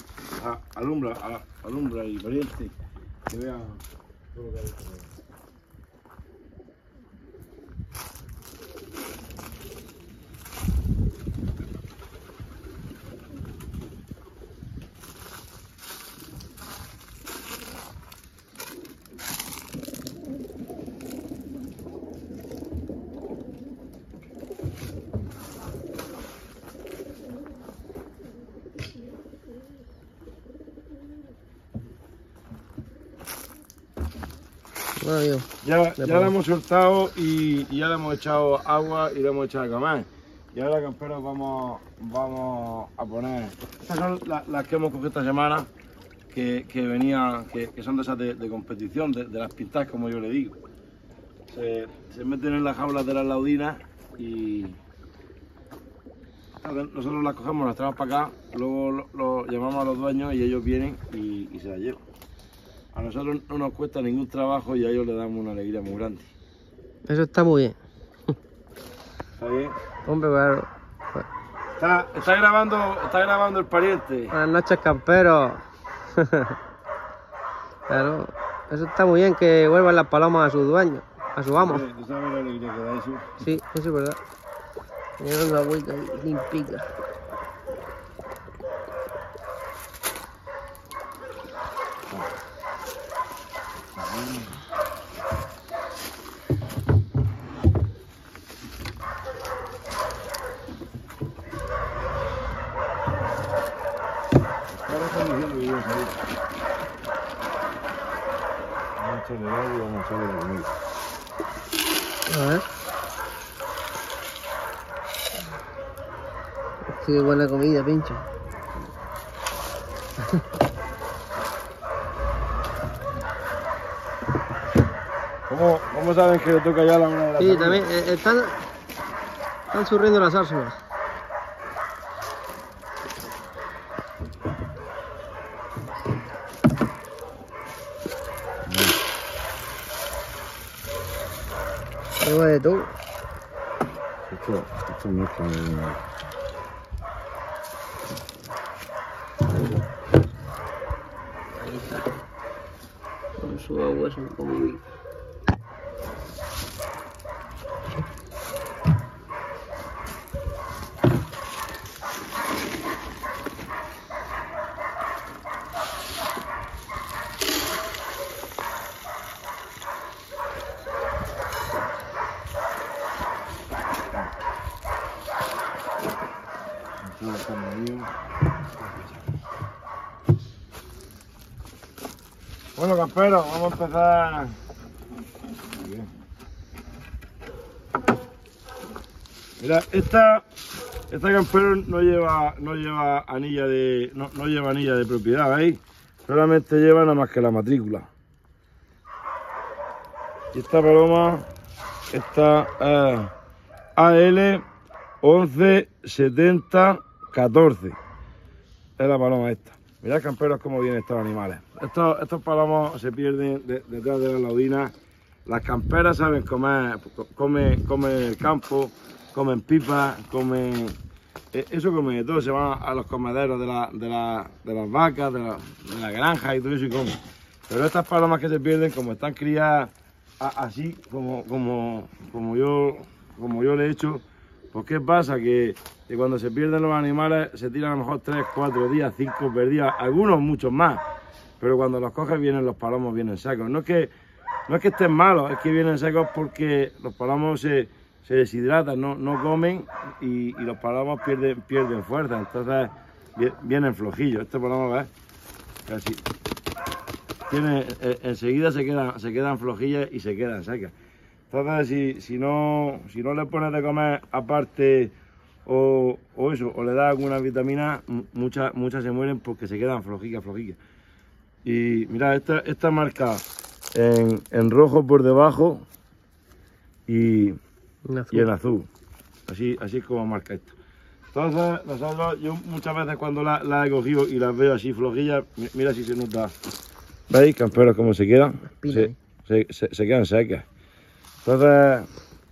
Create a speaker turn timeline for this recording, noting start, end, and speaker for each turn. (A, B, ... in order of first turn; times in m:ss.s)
0:00.4-0:02.7 A
0:03.3-0:03.8 A
0:04.3-0:05.1 A
0:35.0-0:35.5 B
0:35.6-0:45.7 A
0:36.0-0:36.3 B
0:46.3-0:50.6 A
0:51.5-0:54.8 A
0:56.6-1:02.0 A
1:02.9-1:06.3 A
1:07.1-1:07.8 B
1:09.4-1:09.8 A
1:10.0-1:11.3 B
1:11.8-1:14.4 A
1:14.3-1:16.6 B
1:17.9-1:21.8 B
1:21.6-1:23.5 A
1:23.4-1:24.2 B
1:25.2-1:26.9 B
1:34.0-1:34.5 A
1:44.7-1:46.2 A
1:49.0-1:50.7 A
1:52.3-1:52.6 B
1:56.8-1:58.3 B
2:05.5-2:08.0 A
2:07.4-2:08.6 B
2:09.7-2:10.8 B
2:18.7-2:19.0 A
2:22.2-2:23.0 B
2:24.3-2:26.0 A
2:31.6-2:32.1 B
2:33.4-2:34.8 B
2:57.0-2:58.1 A
2:58.7-2:59.2 A
3:02.8-3:04.6 A
3:05.7-3:06.1 A
3:09.6-3:10.4 A
3:11.1-3:18.1 A
3:20.5-3:21.5 A
3:22.1-3:23.3 A
3:24.0-3:24.6 A
3:25.2-3:28.0 A
3:29.0-3:34.9 A
3:35.5-3:41.0 A
3:41.5-4:01.0 A
4:01.6-4:04.1 A
4:04.7-4:15.1 A
4:15.9-4:16.2 A
4:17.5-4:20.9 A
4:21.5-4:25.1 A
4:25.7-4:30.8 A
4:31.6-4:35.8 A
4:37.1-4:37.6 A
4:38.1-4:38.5 B
4:38.3-4:38.9 A
4:39.5-4:40.8 A
4:41.3-4:46.5 A
4:47.3-4:50.7 A
4:48.7-4:49.2 B
4:51.4-4:52.1 A